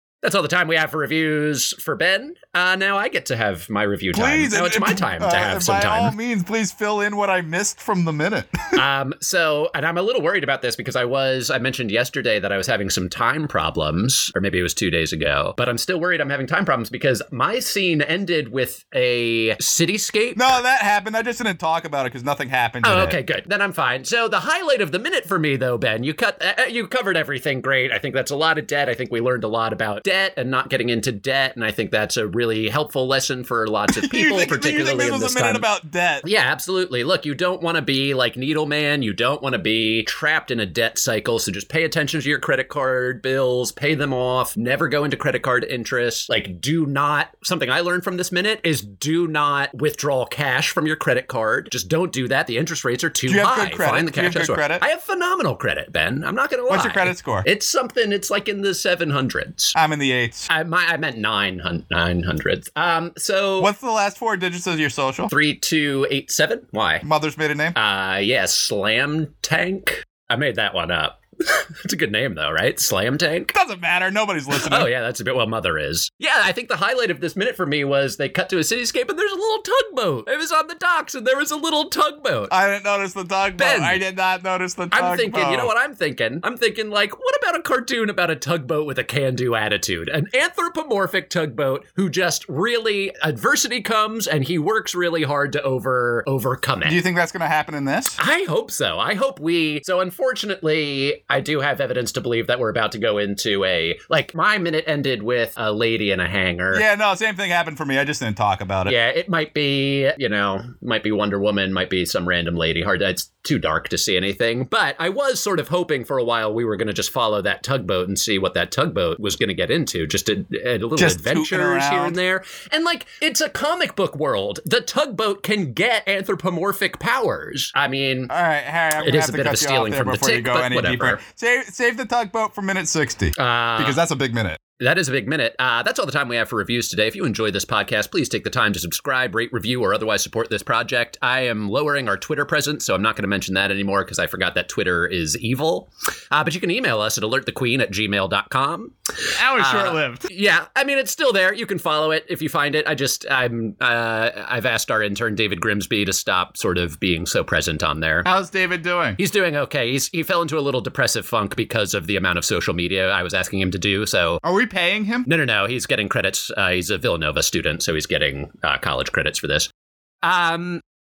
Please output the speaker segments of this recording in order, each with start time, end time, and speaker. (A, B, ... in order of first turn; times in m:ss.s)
0:00.2-0:06.1 A
0:04.1-0:08.5 B
0:08.8-0:20.6 A
0:20.4-0:23.2 B
0:22.8-0:35.7 A
0:34.0-0:36.2 B
0:36.2-0:59.7 A
0:53.3-0:54.8 B
0:56.7-0:57.5 B
0:59.7-1:00.5 B
1:00.5-1:03.7 A
1:03.6-1:05.3 B
1:05.3-1:07.0 A
1:07.0-1:07.8 B
1:07.7-1:13.5 A
1:13.5-1:14.9 B
1:14.5-1:22.5 A
1:22.5-1:25.7 B
1:23.6-1:24.0 A
1:24.9-1:37.0 A
1:36.8-1:38.2 B
1:38.2-1:46.8 A
1:46.7-1:48.9 B
1:48.9-2:08.3 A
2:01.0-2:02.2 B
2:08.3-2:14.6 B
2:09.0-2:11.2 A
2:13.4-2:14.0 A
2:14.8-2:28.9 A
2:29.3-2:30.2 B
2:29.5-2:38.3 A
2:38.2-2:39.2 B
2:39.2-2:44.4 A
2:44.4-2:45.3 B
2:45.3-2:49.7 A
2:50.2-2:50.8 A